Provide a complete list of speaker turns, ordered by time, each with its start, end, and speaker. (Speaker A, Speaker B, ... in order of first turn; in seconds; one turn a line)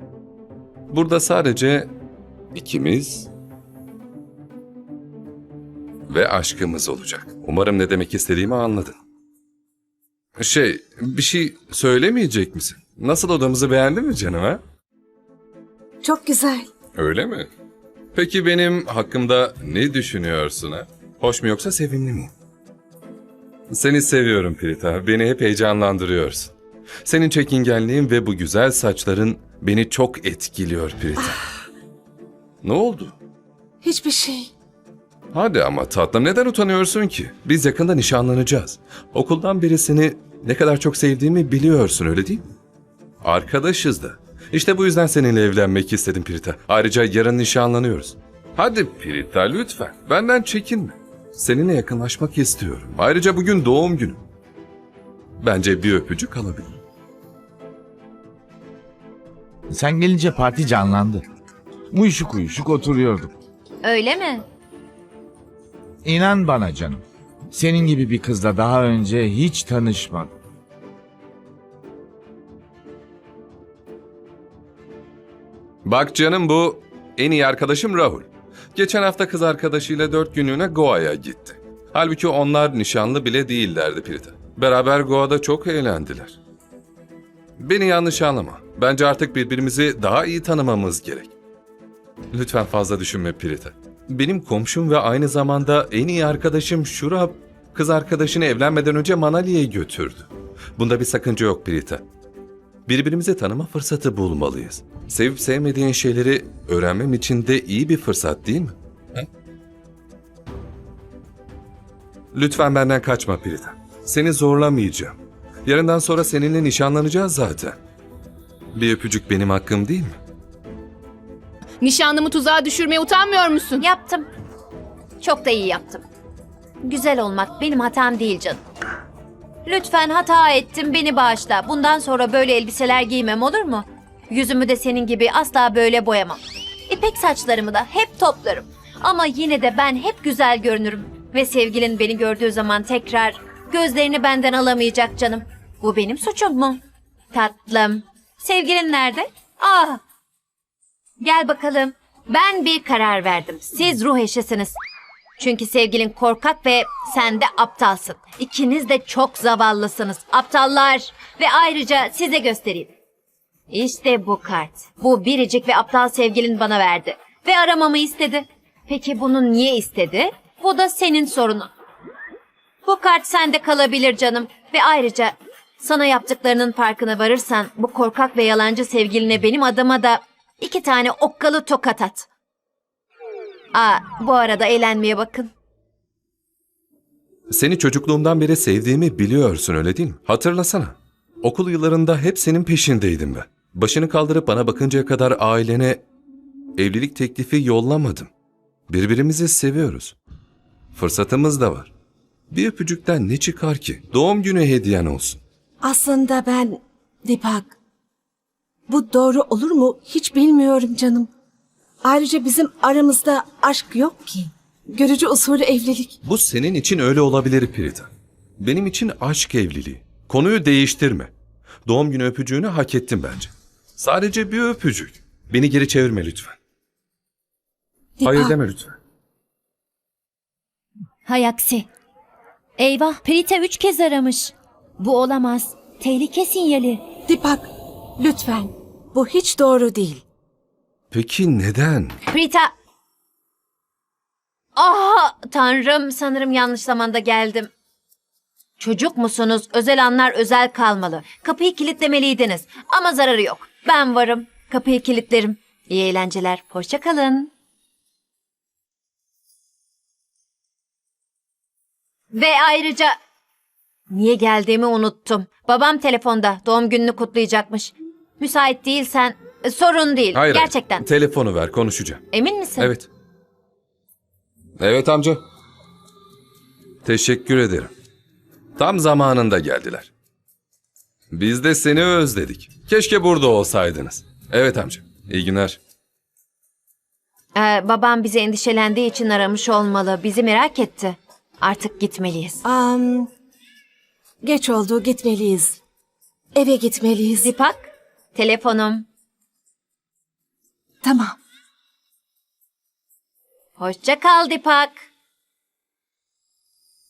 Speaker A: 0.9-1.9
Speaker A: 2.5-3.3
Speaker A: 6.1-9.0
Speaker A: 10.4-14.6
Speaker B: 16.0-16.7
Speaker A: 16.9-17.5
Speaker A: 18.1-22.3
Speaker A: 23.7-26.5
Speaker A: 27.1-31.4
Speaker A: 32.6-33.1
Speaker B: 33.8-34.5
Speaker A: 35.3-42.5
Speaker A: 43.2-54.2
Speaker A: 55.4-56.8
Speaker C: 59.7-61.2
Speaker C: 61.9-63.3
Speaker D: 63.8-64.5
Speaker C: 66.0-70.3
Speaker A: 75.8-86.4
Speaker A: 87.6-91.3
Speaker A: 92.3-102.0
Speaker A: 102.9-109.3
Speaker A: 112.3-117.8
Speaker A: 118.8-120.2
Speaker E: 121.8-123.8
Speaker D: 123.8-124.3
Speaker D: 125.2-126.0
Speaker D: 126.8-128.6
Speaker D: 129.7-146.8
Speaker D: 147.3-150.0
Speaker D: 151.2-154.8
Speaker D: 155.4-162.9
Speaker D: 163.7-171.7
Speaker D: 172.8-182.3
Speaker D: 183.7-185.5
Speaker A: 187.5-196.0
Speaker A: 196.8-198.3
Speaker A: 198.9-200.2
Speaker A: 200.9-201.9
Speaker A: 202.5-205.4
Speaker B: 205.8-207.7
Speaker B: 208.9-211.3
Speaker B: 212.0-216.2
Speaker A: 216.2-221.3
Speaker A: 221.9-226.6
Speaker B: 228.2-228.6
Speaker A: 228.2-229.0
Speaker D: 231.2-231.9
Speaker D: 232.8-237.1
Speaker B: 237.3-240.2
Speaker A: 241.1-242.2
Speaker D: 242.3-242.7
Speaker D: 244.8-247.7
Speaker D: 248.8-257.5
Speaker D: 262.3-263.1
Speaker D: 264.1-271.0
Speaker A: 270.4-272.3
Speaker D: 272.3-272.9
Speaker A: 272.8-273.1
Speaker A: 274.8-275.4
Speaker A: 277.0-277.9
Speaker A: 278.8-280.1
Speaker A: 281.3-285.8
Speaker D: 287.6-292.6
Speaker B: 292.6-293.3
Speaker B: 294.4-295.8
Speaker B: 296.6-297.5
Speaker D: 297.4-299.1
Speaker B: 301.0-301.4
Speaker D: 303.8-305.0